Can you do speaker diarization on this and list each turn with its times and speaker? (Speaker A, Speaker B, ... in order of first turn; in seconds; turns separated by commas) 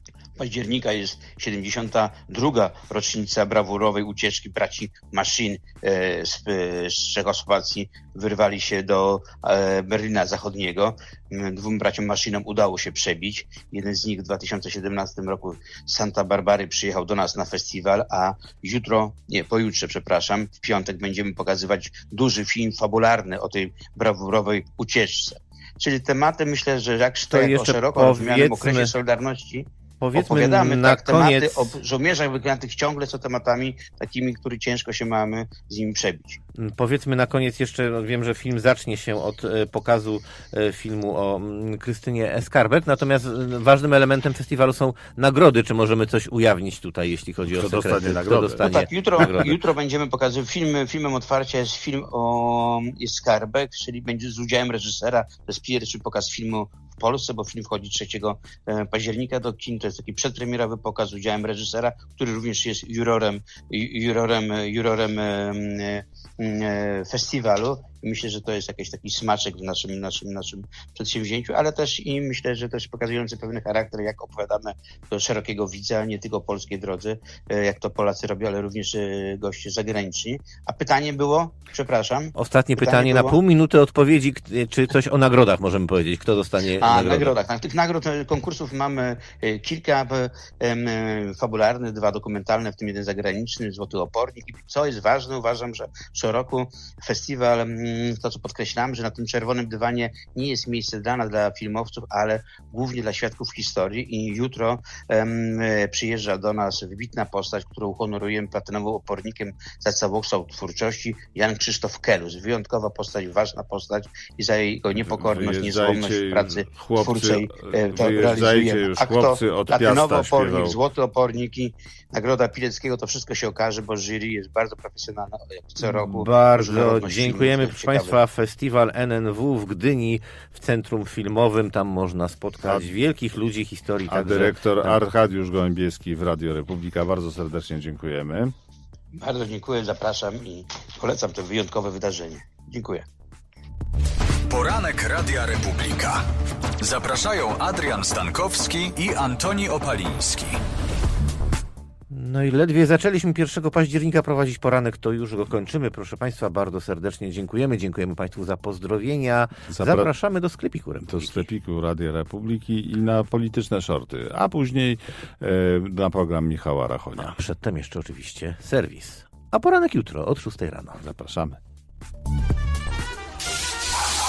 Speaker A: 0.4-36.4, Speaker B: 27.3-28.9, Speaker B: 30.0-31.8, Speaker B: 36.6-49.5, Speaker C: 47.5-48.6, Speaker A: 48.6-83.4, Speaker B: 82.3-87.3, Speaker A: 86.8-128.2, Speaker C: 115.0-120.8, Speaker B: 125.8-135.0, Speaker C: 134.1-138.5, Speaker A: 139.2-143.0, Speaker D: 144.5-146.2, Speaker D: 146.8-150.6, Speaker B: 152.1-161.5, Speaker C: 159.7-160.1, Speaker C: 161.0-167.3, Speaker B: 167.2-171.0, Speaker C: 171.0-171.6